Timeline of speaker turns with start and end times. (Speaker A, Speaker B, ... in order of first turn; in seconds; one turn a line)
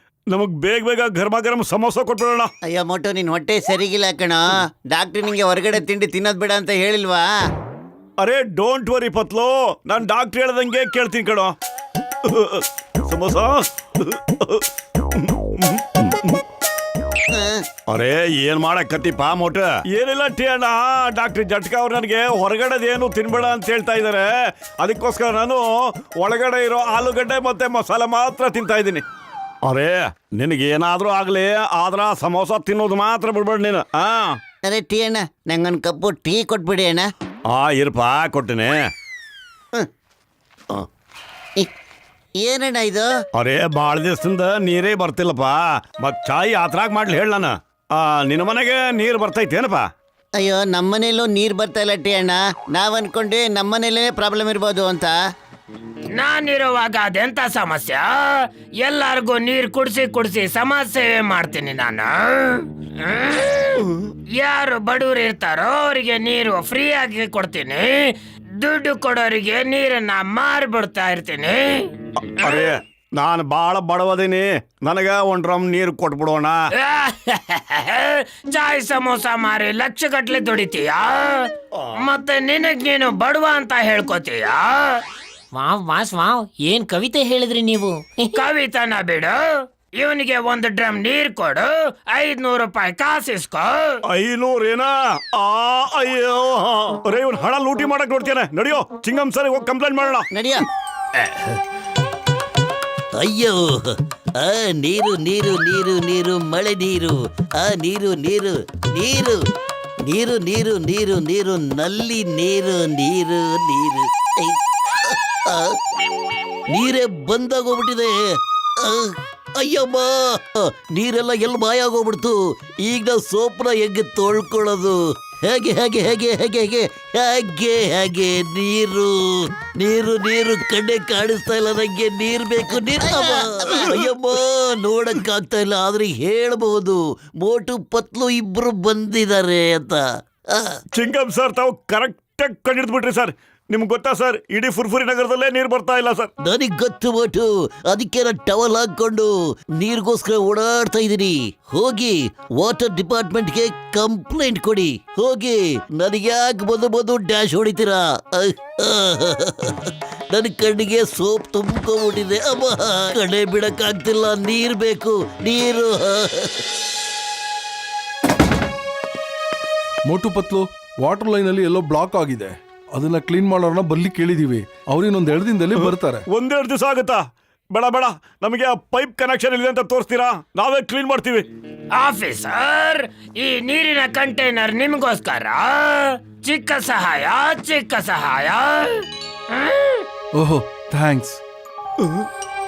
Speaker A: 0.3-2.5
Speaker B: 2.6-7.3
Speaker A: 8.2-11.5
Speaker A: 12.2-16.4
Speaker B: 17.3-17.6
Speaker A: 17.9-29.0
Speaker A: 29.6-34.4
Speaker B: 34.6-37.1
Speaker A: 37.5-38.8
Speaker B: 42.4-43.1
Speaker A: 43.3-49.9
Speaker B: 50.4-55.2
Speaker C: 56.1-72.7
Speaker A: 72.2-76.7
Speaker C: 76.8-85.0
Speaker D: 85.5-88.1
Speaker C: 88.2-94.0
Speaker A: 94.1-100.3
Speaker B: 100.3-100.6
Speaker E: 103.2-109.4
Speaker E: 110.0-115.8
Speaker E: 116.7-118.2
Speaker E: 118.8-140.8
Speaker B: 132.8-134.0
Speaker A: 140.9-146.3
Speaker E: 146.4-166.5
Speaker F: 170.1-176.2
Speaker A: 175.8-181.5
Speaker C: 182.0-190.1
Speaker F: 190.3-191.4